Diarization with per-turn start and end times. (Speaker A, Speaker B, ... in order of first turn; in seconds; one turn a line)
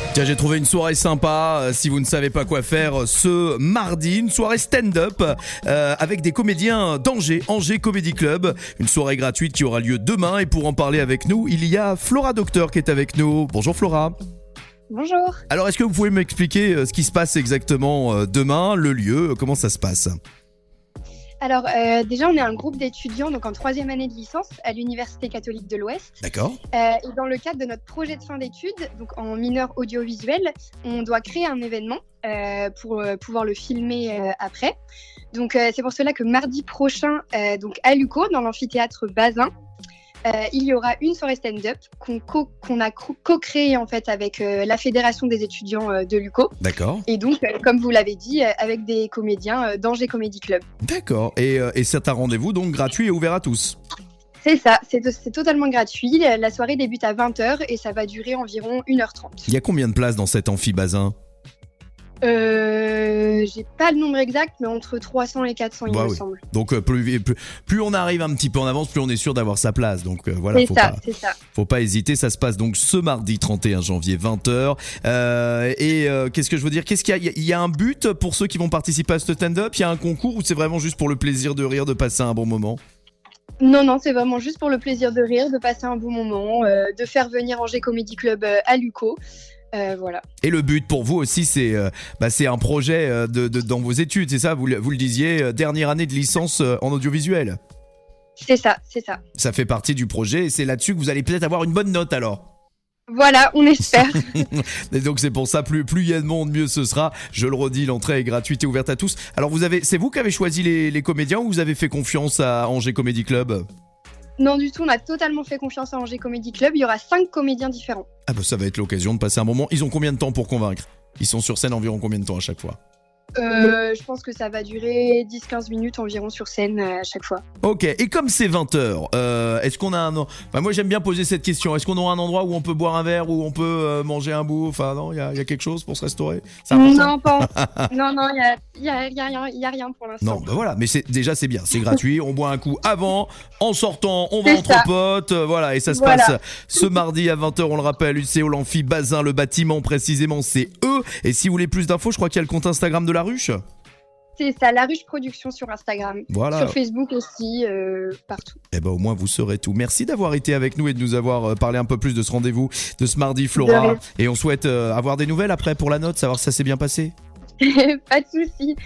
Speaker A: 0.1-14.2
Speaker B: 14.9-15.4
Speaker A: 15.5-20.1
Speaker B: 21.4-26.1
Speaker A: 26.2-26.6
Speaker B: 26.7-34.7
Speaker B: 35.3-39.5
Speaker B: 40.2-46.5
Speaker A: 46.6-47.0
Speaker B: 47.0-50.6
Speaker A: 50.8-53.8
Speaker B: 54.4-59.5
Speaker A: 59.5-61.1
Speaker B: 62.2-66.4
Speaker A: 65.8-71.0
Speaker B: 70.5-71.3
Speaker A: 71.5-82.8
Speaker B: 83.6-89.2
Speaker B: 89.7-90.2
Speaker A: 90.4-97.6
Speaker B: 98.4-99.2
Speaker A: 99.3-102.4
Speaker B: 103.1-104.4
Speaker A: 104.3-113.6
Speaker B: 114.4-118.1
Speaker A: 118.3-122.8
Speaker B: 123.4-127.4
Speaker A: 127.6-137.9
Speaker B: 136.7-140.5
Speaker A: 140.2-153.6
Speaker B: 144.4-144.9
Speaker B: 145.9-146.8
Speaker B: 154.4-158.6
Speaker A: 156.3-156.8
Speaker A: 158.7-167.1
Speaker B: 163.5-164.0
Speaker B: 167.6-168.8